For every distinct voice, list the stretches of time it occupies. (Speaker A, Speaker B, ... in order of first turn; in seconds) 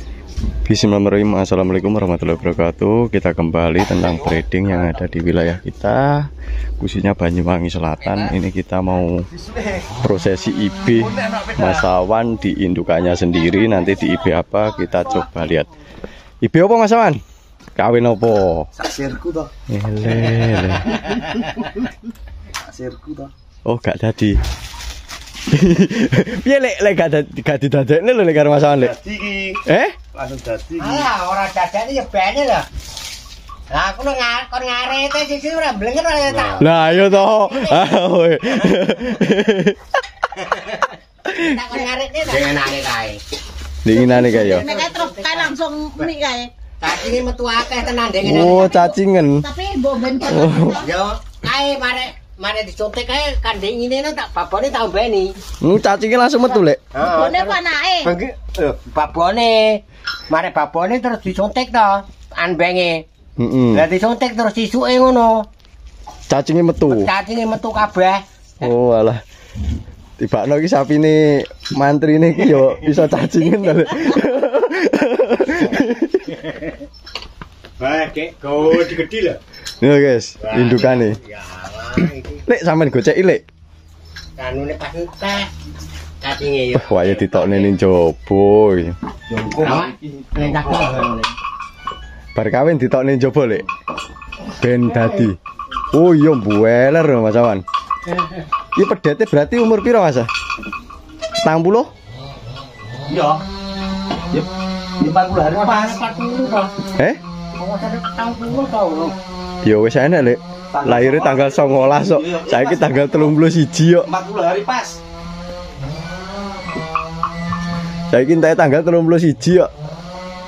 Speaker A: 0.7-6.3, 6.8-9.3, 10.0-15.7, 16.4-17.2, 17.8-18.7, 19.7-21.4, 23.7-24.4, 25.5-28.9, 29.7-30.0, 36.5-39.8, 41.3-41.5, 43.8-44.6, 48.2-49.4, 50.3-50.8, 55.6-56.8, 63.4-63.9, 66.3-67.1, 68.6-69.2, 70.2-76.4, 79.8-81.2, 82.5-83.4, 86.7-89.0, 92.3-93.6, 94.6-95.4, 95.9-97.6, 98.8-100.3, 101.4-101.9, 109.6-114.1, 118.1-119.7
Speaker B: 3.9-5.1, 8.0-8.4, 9.3-9.9, 10.9-11.9, 18.8-19.5, 22.6-23.3, 28.8-31.1, 89.3-91.0, 103.1-103.4, 105.0-106.0, 110.7-113.4, 114.0-115.0
Speaker C: 13.4-14.3, 44.3-46.5, 48.5-50.9, 57.0-58.1
Speaker D: 30.8-32.7, 33.7-38.0, 40.4-43.2, 43.9-46.1, 46.8-48.8, 50.8-55.3, 56.9-63.0, 63.7-65.5, 66.9-68.2, 77.8-79.4, 80.4-82.4, 84.4-85.5, 86.2-87.8, 89.6-91.3, 94.9-95.2, 105.5-106.8, 107.6-109.1